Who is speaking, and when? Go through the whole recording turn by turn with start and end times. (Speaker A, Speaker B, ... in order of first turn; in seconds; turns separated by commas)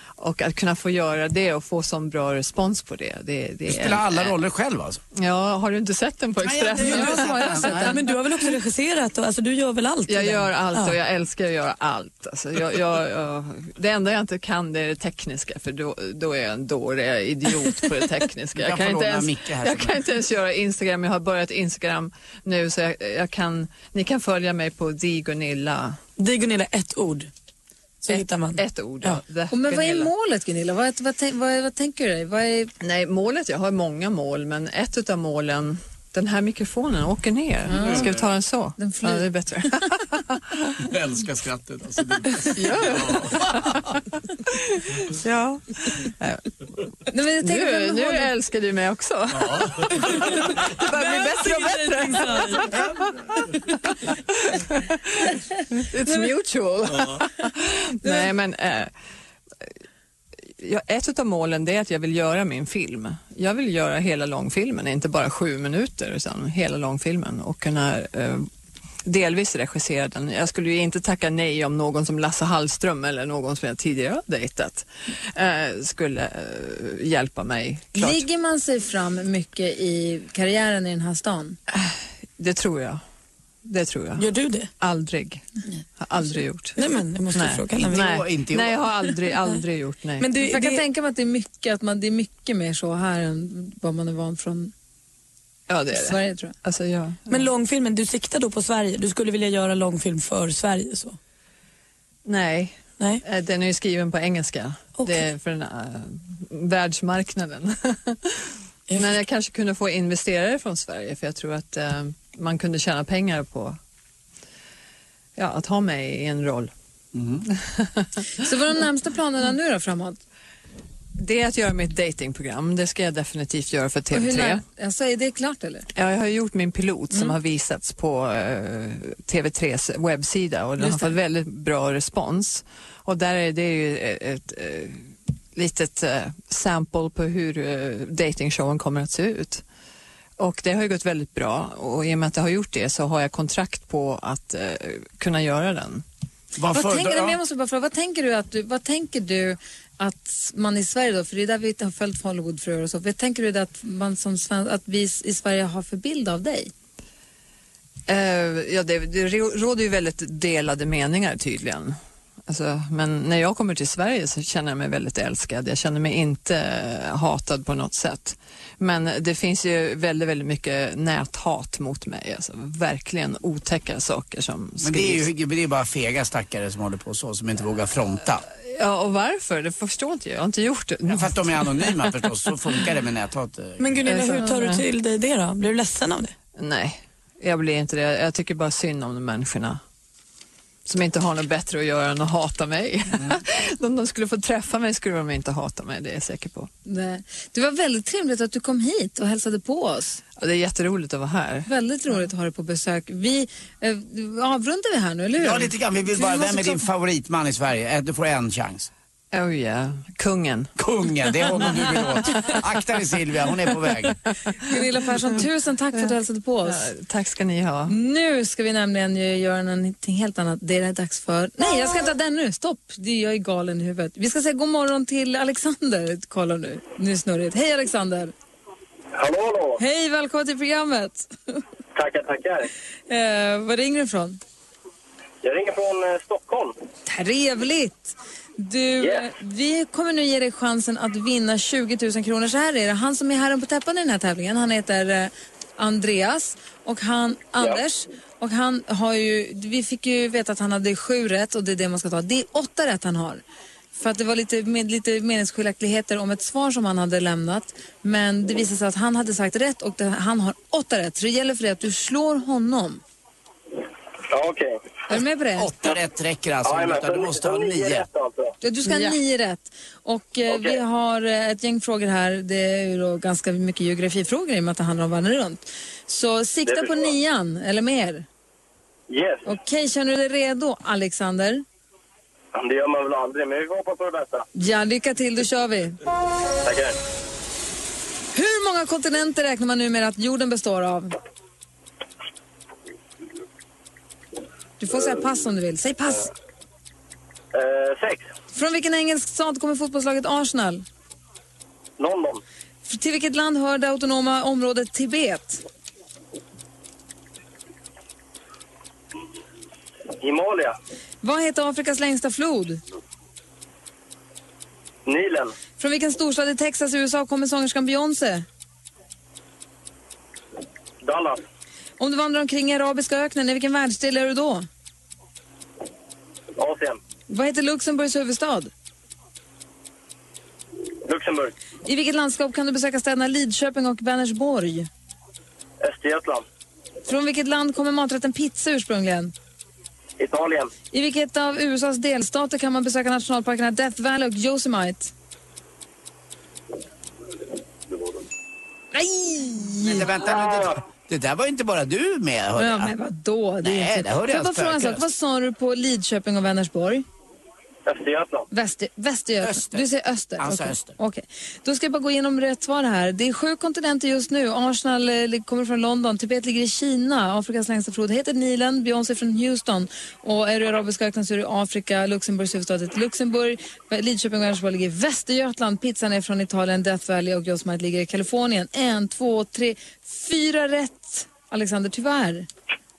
Speaker A: 0.2-4.3, Speaker B: 3.7-5.0, Speaker A: 5.2-7.7, Speaker B: 6.4-8.0, Speaker C: 6.8-8.0, Speaker D: 7.7-10.9, Speaker A: 10.1-26.0, Speaker B: 18.6-20.0, Speaker D: 26.2-27.3, Speaker D: 28.0-29.2, Speaker A: 28.1-30.1, Speaker C: 29.5-32.7, Speaker A: 32.8-40.7, Speaker C: 37.7-38.1, Speaker C: 38.8-39.3, Speaker B: 40.9-43.3, Speaker A: 42.5-43.9, Speaker A: 45.1-46.4, Speaker C: 47.1-48.3, Speaker A: 47.4-53.6, Speaker D: 50.9-52.8, Speaker A: 54.5-58.9, Speaker A: 60.6-68.5, Speaker A: 69.1-78.3, Speaker C: 78.0-81.6, Speaker A: 81.8-83.0, Speaker A: 83.7-84.3, Speaker D: 84.2-84.7, Speaker A: 84.8-85.5, Speaker A: 86.0-86.8, Speaker D: 86.8-88.1, Speaker A: 87.3-90.3, Speaker B: 87.8-88.8, Speaker D: 90.2-90.8, Speaker C: 90.4-94.7, Speaker A: 95.7-97.3, Speaker C: 95.9-96.5, Speaker D: 97.3-101.2, Speaker A: 102.2-108.4, Speaker D: 105.0-105.2, Speaker A: 109.0-113.8, Speaker A: 115.4-116.7, Speaker B: 117.1-117.5, Speaker A: 117.7-118.1, Speaker C: 118.4-120.2, Speaker A: 121.2-124.6, Speaker C: 124.1-125.9, Speaker A: 126.0-139.6, Speaker C: 130.8-131.1, Speaker A: 140.4-146.0, Speaker B: 146.6-147.4, Speaker C: 146.7-156.7, Speaker A: 158.1-175.3, Speaker B: 174.8-178.4, Speaker A: 178.7-182.1, Speaker B: 181.1-184.0, Speaker D: 183.8-186.3, Speaker A: 184.1-184.8, Speaker A: 186.6-189.8, Speaker A: 190.9-196.7, Speaker C: 196.9-200.2, Speaker A: 200.4-201.7, Speaker C: 201.7-206.8, Speaker B: 205.4-208.9, Speaker A: 209.3-210.7, Speaker B: 210.8-214.2, Speaker C: 214.7-216.9, Speaker A: 216.7-217.9, Speaker C: 217.9-228.3, Speaker E: 229.2-229.8, Speaker C: 229.8-231.6, Speaker E: 231.9-232.7, Speaker C: 233.1-234.4, Speaker E: 235.4-236.7, Speaker C: 237.1-253.4, Speaker E: 239.0-239.3, Speaker C: 253.9-263.0, Speaker E: 264.3-264.8, Speaker C: 265.1-265.7, Speaker B: 265.6-268.1, Speaker E: 266.6-268.5, Speaker C: 268.6-278.3, Speaker E: 270.5-270.8, Speaker E: 276.7-277.1, Speaker E: 279.1-279.4, Speaker C: 279.4-281.6, Speaker E: 282.5-284.5, Speaker C: 284.6-286.0, Speaker E: 286.6-287.0, Speaker C: 288.3-291.1, Speaker C: 294.8-296.3, Speaker E: 297.5-298.3, Speaker C: 298.5-300.9, Speaker E: 302.0-302.4, Speaker C: 302.9-305.6, Speaker E: 310.2-310.8, Speaker C: 311.2-312.8, Speaker E: 315.1-315.6, Speaker C: 315.8-318.5, Speaker E: 321.0-321.4, Speaker C: 322.0-324.7, Speaker E: 326.6-327.0, Speaker C: 327.3-328.7, Speaker E: 331.1-331.5, Speaker C: 331.9-334.9, Speaker E: 335.8-336.4, Speaker C: 337.1-339.3, Speaker E: 340.2-340.7, Speaker C: 340.9-345.1, Speaker C: 348.9-350.1, Speaker B: 349.8-352.9, Speaker E: 350.4-350.7, Speaker C: 352.6-357.1, Speaker B: 353.6-355.1, Speaker E: 357.9-358.5, Speaker C: 358.5-382.5, Speaker B: 359.4-359.9, Speaker B: 360.4-360.9